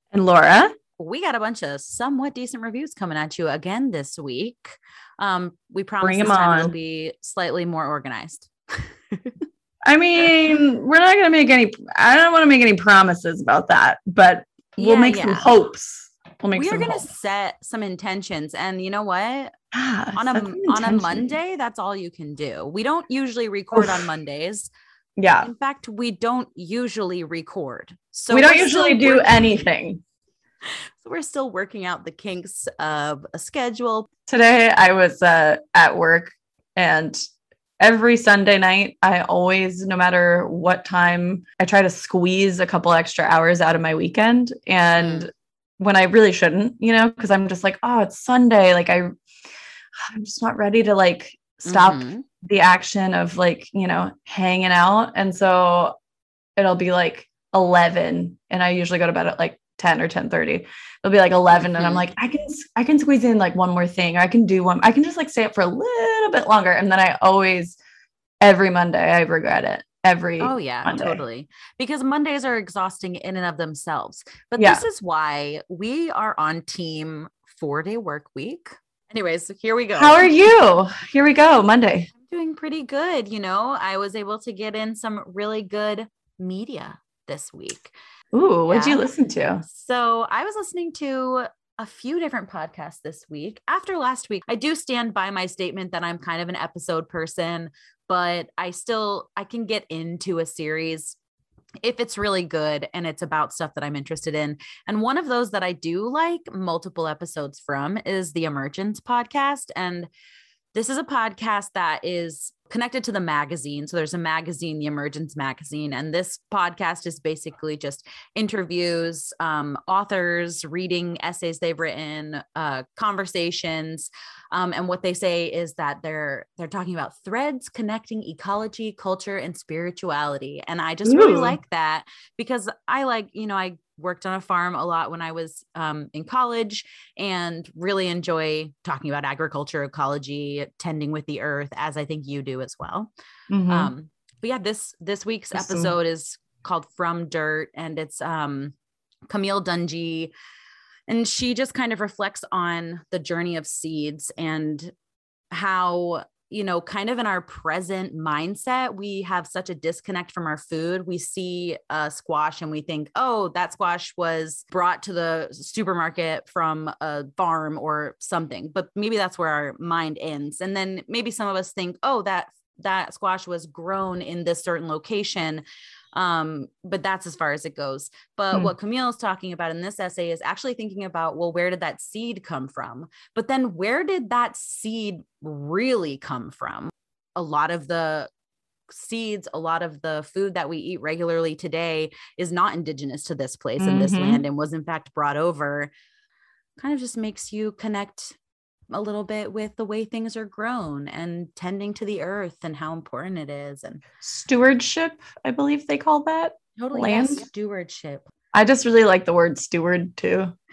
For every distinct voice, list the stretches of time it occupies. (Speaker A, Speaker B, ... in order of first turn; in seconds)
Speaker A: 0.1-0.7, 6.0-6.7, 9.8-17.0, 19.7-21.3, 23.7-24.0, 25.2-25.5, 28.3-30.0, 34.3-37.2, 37.8-49.1, 50.0-55.9, 56.6-67.8, 68.4-71.2, 74.6-74.8, 80.0-82.1, 88.3-89.6, 131.0-131.6, 143.5-143.9, 145.5-145.9, 193.8-194.4, 204.2-207.4, 208.5-210.5
Speaker B: 1.0-8.9, 14.8-15.5, 16.5-19.5, 20.1-24.7, 25.4-29.6, 30.7-34.1, 45.0-45.3, 51.6-52.3, 61.6-62.0, 70.4-80.3, 82.2-87.9, 88.7-89.0, 89.6-101.2, 101.8-110.1, 110.7-143.1, 143.7-148.8, 149.3-150.3, 151.1-154.9, 155.5-188.3, 188.9-195.9, 196.8-198.4, 198.9-204.0, 206.8-208.3